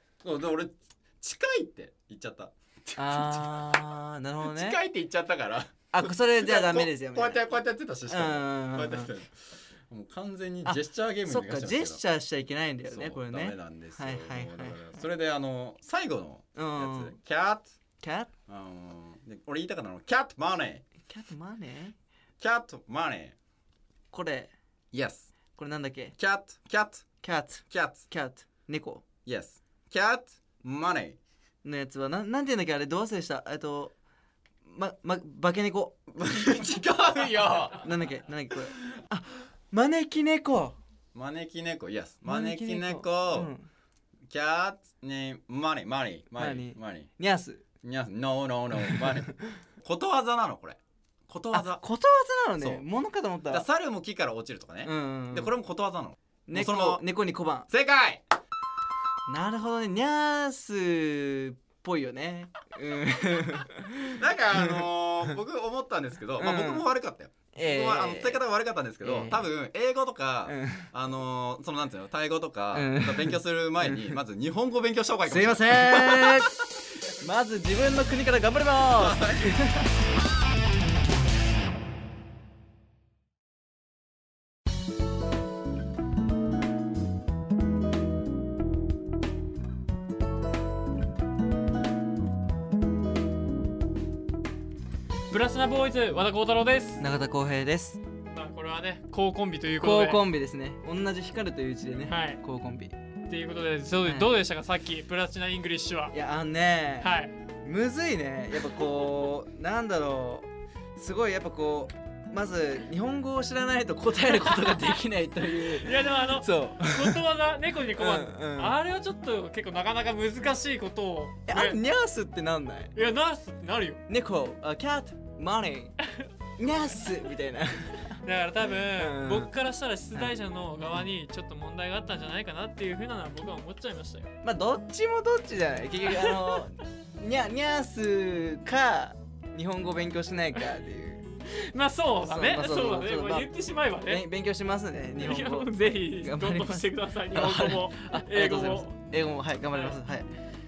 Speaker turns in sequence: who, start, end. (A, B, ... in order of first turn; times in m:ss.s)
0:00.2-0:03.8 A
0:03.0-0:04.8 B
0:04.4-0:09.4 A
0:05.9-0:07.4 B
0:08.1-0:09.1 B
0:09.9-0:12.0 A
0:10.6-0:14.8 B
0:12.8-0:17.7 A
0:16.5-0:17.2 B
0:18.0-0:18.3 B
0:18.5-0:20.8 A
0:21.0-0:21.9 B
0:22.4-0:23.4 A
0:24.1-0:24.5 B
0:24.9-0:25.3 A
0:25.6-0:26.1 B
0:26.2-0:27.0 A
0:27.2-0:29.0 B
0:27.7-0:28.1 A
0:29.2-0:31.2 A
0:31.6-0:33.9 B
0:34.6-0:36.0 B
0:36.1-0:37.9 A
0:37.8-0:40.8 B
0:41.1-0:43.5 A
0:42.2-0:43.7 B
0:44.3-0:47.1 A
0:46.3-0:47.6 B
0:47.8-0:51.8 A
0:51.5-0:53.6 B
0:52.6-0:52.9 A
0:53.5-0:57.0 A
0:54.8-0:55.5 B
0:56.5-0:57.7 B
0:57.7-0:58.2 A
0:59.3-1:04.9 B
1:04.2-1:16.5 A
1:06.4-1:06.8 B
1:07.5-1:08.4 B
1:09.0-1:09.4 B
1:10.5-1:10.8 B
1:12.7-1:14.2 B
1:15.2-1:16.5 B
1:17.2-1:19.8 B
1:19.0-1:19.6 A
1:35.3-1:37.0 C
1:37.0-1:38.0 B
1:38.3-1:40.2 C
1:39.8-1:42.9 B
1:42.1-1:42.4 C
1:43.3-1:46.1 C
1:44.0-1:44.3 B
1:46.1-1:47.1 B
1:47.0-1:47.3 C
1:47.6-1:57.2 B
1:55.6-2:01.8 C
1:58.0-1:58.8 B
2:01.5-2:02.9 B
2:02.9-2:04.0 C
2:04.1-2:06.0 B
2:06.6-2:08.2 B
2:08.2-2:14.3 C
2:08.9-2:09.5 B
2:14.4-2:21.2 B
2:16.3-2:16.6 C
2:21.5-2:24.2 C
2:22.2-2:23.5 B
2:24.0-2:30.3 B
2:25.2-2:28.9 C